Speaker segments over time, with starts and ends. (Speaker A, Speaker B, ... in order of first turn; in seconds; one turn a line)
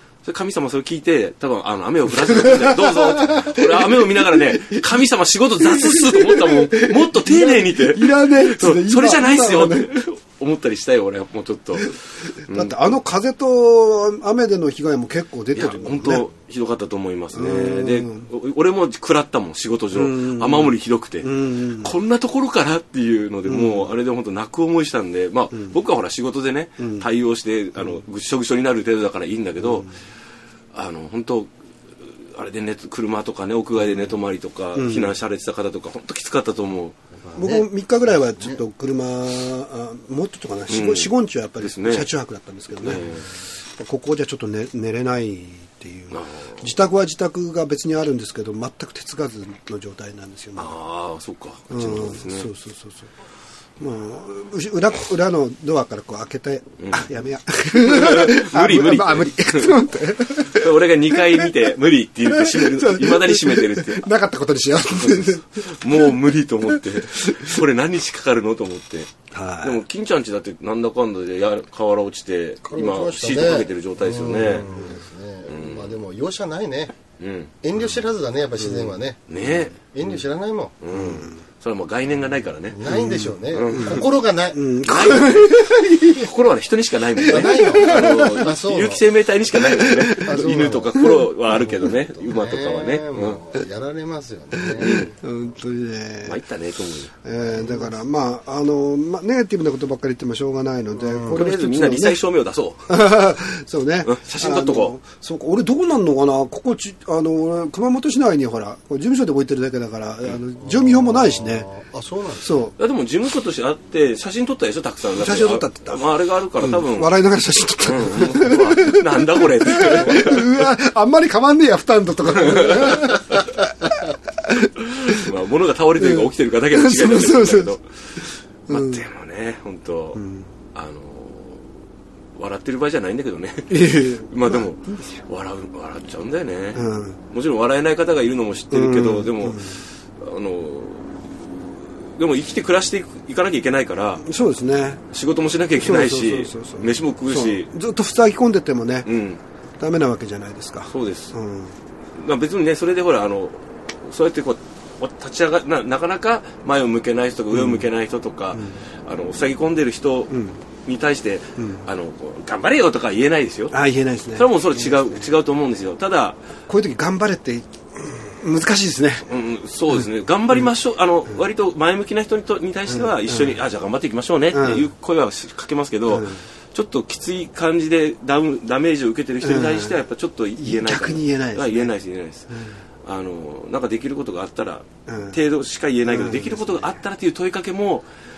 Speaker A: 0.2-12.9
Speaker B: 2.2-4.8
Speaker B: 5.6-9.9
Speaker B: 12.5-16.2
Speaker A: 15.5-29.9
Speaker B: 17.3-18.3
Speaker B: 19.9-21.9
Speaker B: 23.5-23.9
Speaker B: 26.8-27.1
Speaker B: 29.6-29.9
Speaker A: 30.7-37.0
Speaker B: 34.7-35.1
Speaker C: 37.1-37.7
Speaker B: 37.4-43.0
Speaker A: 40.7-42.1
Speaker A: 42.8-43.3
Speaker B: 43.6-50.7
Speaker A: 46.1-46.7
Speaker A: 50.6-52.5
Speaker B: 51.7-53.1
Speaker B: 53.8-61.6
Speaker A: 56.8-57.1
Speaker A: 57.7-59.8
Speaker A: 60.4-64.1
Speaker B: 62.2-67.6
Speaker A: 65.0-74.7
Speaker B: 69.3-69.8
Speaker C: 72.6-77.0
Speaker A: 75.5-75.9
Speaker A: 77.2-77.5
Speaker C: 77.6-80.7
Speaker A: 79.3-79.8
Speaker A: 80.8-82.8
Speaker B: 80.9-81.4
Speaker C: 82.7-84.6
Speaker B: 82.8-86.3
Speaker A: 83.5-84.0
Speaker A: 84.8-93.4
Speaker C: 87.3-89.0
Speaker B: 87.3-88.5
Speaker B: 89.7-91.3
Speaker C: 90.4-90.7
Speaker C: 91.5-95.1
Speaker B: 94.7-96.4
Speaker A: 94.8-95.1
Speaker A: 96.2-97.1
Speaker B: 97.2-102.2
Speaker C: 101.0-101.4
Speaker A: 101.3-102.9
Speaker B: 102.9-111.7
Speaker A: 104.0-104.9
Speaker C: 110.6-112.6
Speaker B: 112.4-112.7
Speaker A: 112.8-117.1
Speaker B: 115.1-116.0
Speaker B: 116.6-125.3
Speaker A: 117.8-120.6
Speaker C: 119.9-120.3
Speaker A: 122.3-123.6
Speaker A: 124.8-130.2
Speaker B: 126.0-129.0
Speaker B: 130.1-130.5
Speaker A: 130.7-131.7
Speaker A: 132.3-144.2
Speaker B: 133.7-135.2
Speaker B: 136.7-137.2
Speaker B: 138.7-139.8
Speaker B: 144.2-145.0
Speaker A: 145.1-147.7
Speaker B: 145.7-149.1
Speaker A: 149.0-149.4
Speaker B: 149.8-151.8
Speaker A: 150.9-151.3
Speaker A: 152.2-163.8
Speaker B: 157.5-157.8
Speaker B: 158.5-158.8
Speaker B: 160.3-160.6
Speaker B: 161.6-161.8
Speaker B: 163.7-165.3
Speaker A: 164.3-166.4
Speaker B: 166.7-169.3
Speaker A: 169.2-182.5
Speaker B: 169.9-170.7
Speaker B: 172.9-173.6
Speaker B: 174.5-174.9
Speaker B: 176.1-176.4
Speaker B: 179.4-179.9
Speaker B: 180.6-181.9
Speaker B: 182.5-182.8
Speaker A: 183.0-188.1
Speaker B: 185.1-185.4
Speaker B: 186.1-187.0